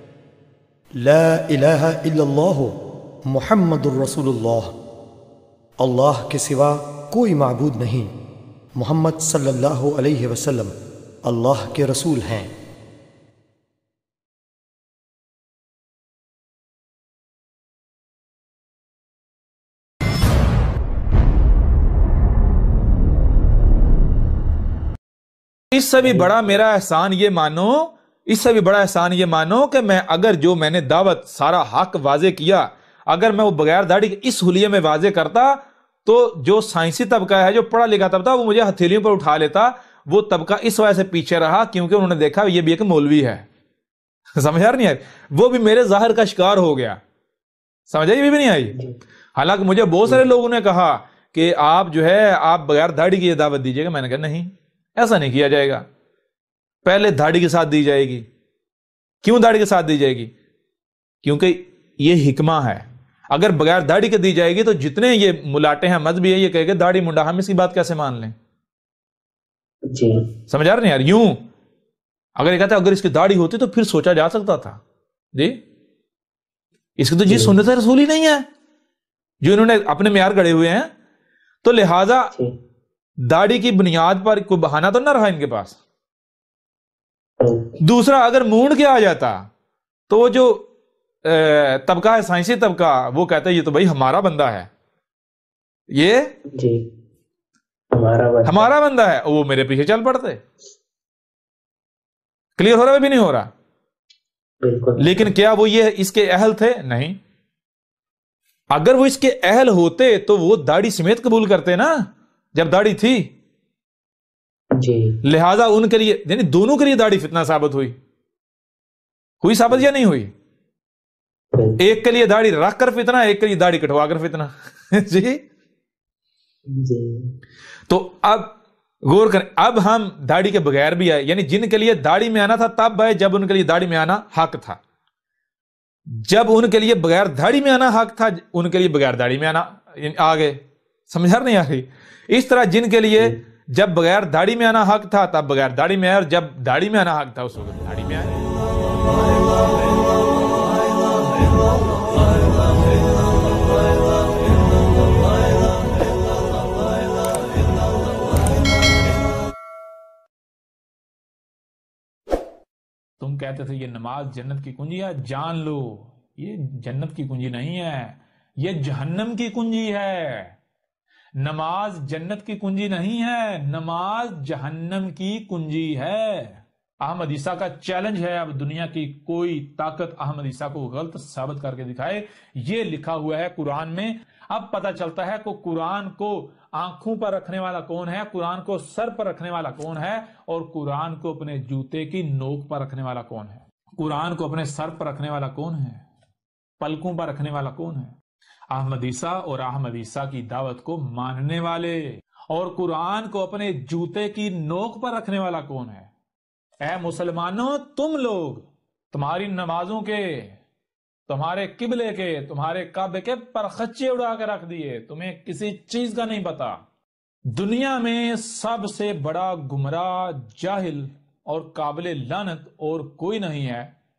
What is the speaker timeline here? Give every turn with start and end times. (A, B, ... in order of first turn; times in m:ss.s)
0:01.0-0:02.7 A
0:03.3-0:04.7 A
0:05.8-0:08.1 A
0:08.8-0:10.7 A
0:11.2-0:12.5 A
0:25.7-0:43.4 B
0:26.0-0:26.4 C
0:44.4-0:47.0 B
0:47.9-0:48.8 B
0:48.7-0:49.0 C
0:49.4-0:55.9 B
0:56.8-0:58.3 B
0:59.2-1:00.3 B
1:01.2-1:08.4 B
1:09.9-1:10.2 C
1:10.5-1:11.4 B
1:12.4-1:14.8 B
1:15.3-1:15.6 B
1:17.0-1:18.4 B
1:17.3-1:17.6 C
1:19.4-1:20.9 B
1:21.6-1:22.3 B
1:23.2-1:25.8 B
1:27.4-1:27.7 C
1:27.8-1:29.5 B
1:30.1-1:30.6 B
1:31.2-1:34.7 B
1:35.9-1:36.3 B
1:36.5-1:36.8 C
1:37.9-1:38.7 C
1:38.4-1:40.4 B
1:42.6-1:43.5 B
1:44.6-1:45.2 C
1:45.0-1:47.2 B
1:48.7-1:53.3 B
1:54.8-1:55.2 C
1:55.2-1:58.0 B
1:59.4-2:00.3 B
2:01.6-2:01.8 C
2:01.8-2:05.4 B
2:06.7-2:07.3 C
2:07.9-2:08.6 B
2:09.1-2:14.8 B
2:16.2-2:28.4 B
2:43.2-2:50.6 B
2:51.4-3:16.0 B
3:16.8-3:18.2 B
3:18.7-3:26.1 B
3:26.8-3:30.6 B
3:31.3-3:36.8 B
3:37.5-3:43.9 B